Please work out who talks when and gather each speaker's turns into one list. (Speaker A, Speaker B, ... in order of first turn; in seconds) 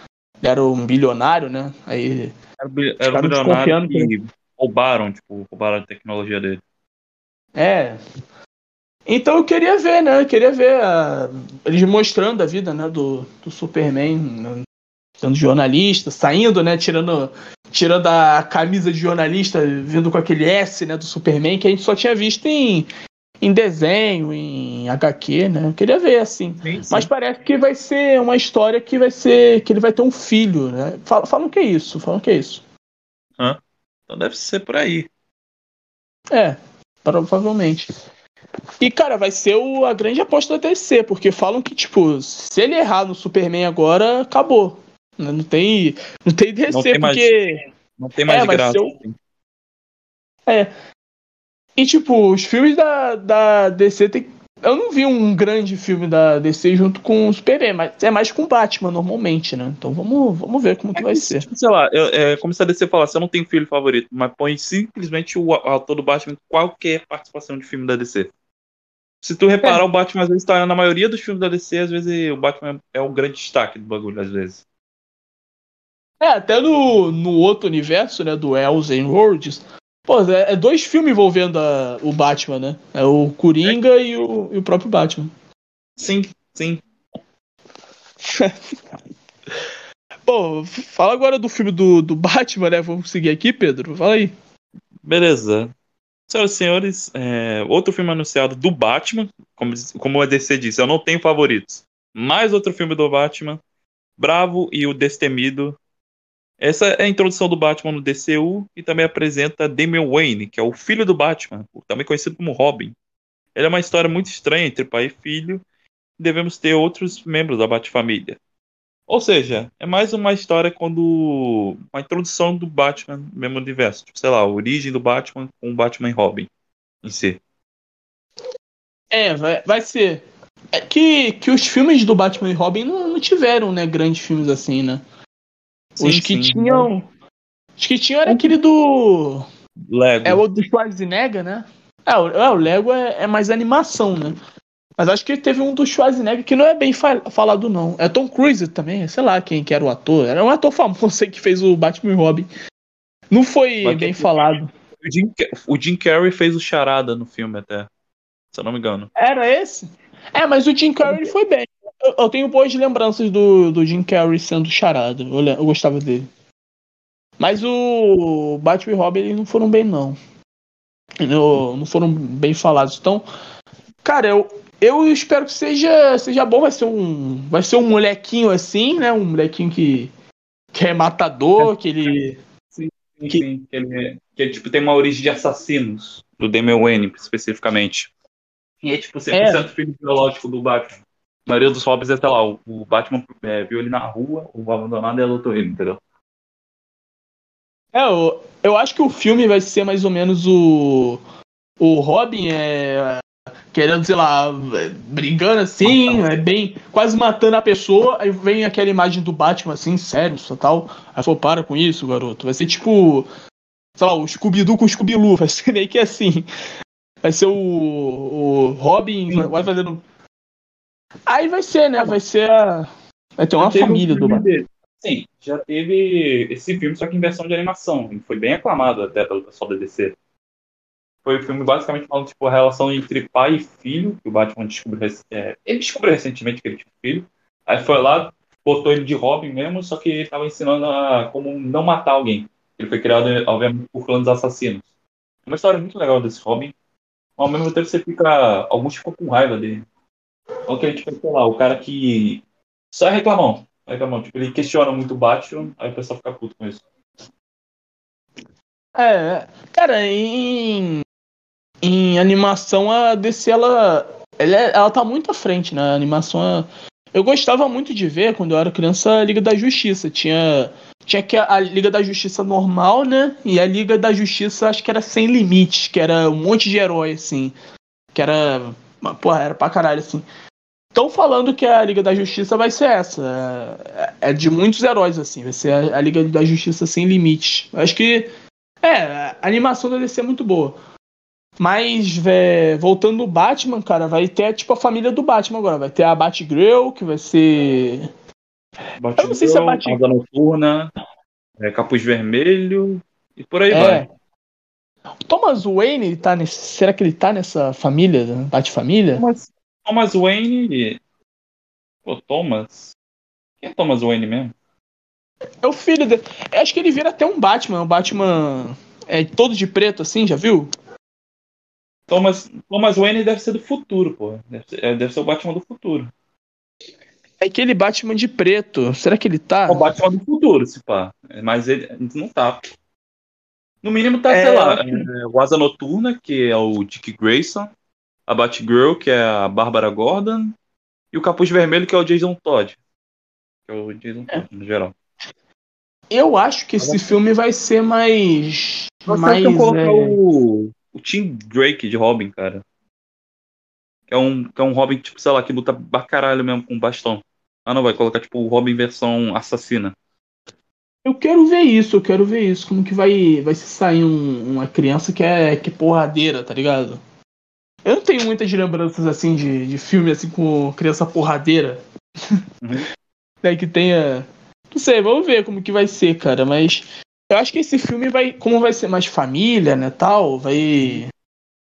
Speaker A: 0.4-2.3, 3.1-4.1, 7.6-8.0, 9.1-14.6, 15.2-22.9, 23.4-32.6, 36.3-37.9, 38.8-47.6, 48.3-48.9, 51.8-61.5, 76.2-85.3, 90.3-94.3, 129.1-135.0, 136.0-137.1, 137.8-139.5, 140.2-144.3, 145.0-152.5, 153.3-154.7, 159.2-166.3, 167.4-170.2, 171.2-173.2, 174.0-180.1, 180.7-182.4, 189.3-189.7, 197.9-201.2, 201.8-203.2, 203.7-213.3, 214.0-216.5, 217.2-220.0, 221.3-224.4, 259.0-261.0, 261.8-277.6, 278.1-280.2, 280.9-288.3, 288.8-290.8, 291.6-298.1, 299.2-300.0, 303.7-304.1, 305.3-309.2, 315.6-320.7, 327.4-329.9, 334.3-335.1, 346.1-350.2, 361.1-367.0, 367.9-371.8, 373.4-381.1
Speaker B: 2.6-6.6, 26.6-27.1, 33.4-35.1, 46.7-47.4, 48.0-49.2, 61.0-68.3, 69.2-74.6, 86.0-86.8, 95.0-95.7, 96.3-103.6, 104.2-105.8, 106.6-113.0, 113.5-115.6, 116.2-118.4, 119.1-126.5, 127.0-127.4, 135.9-136.9, 138.2-138.6, 139.9-140.4, 153.8-157.9, 158.5-159.1, 182.7-188.1, 188.8-196.0, 205.8-206.2, 223.6-230.2, 231.2-244.8, 245.5-246.7, 247.4-249.8, 250.7-256.8, 299.0-300.9, 301.6-304.0, 309.2-311.0, 312.1-312.9, 313.6-314.5, 322.1-326.1, 329.7-332.6, 333.8-337.7, 338.3-340.6, 341.1-342.8, 343.7-344.9, 349.1-352.6, 354.1-359.9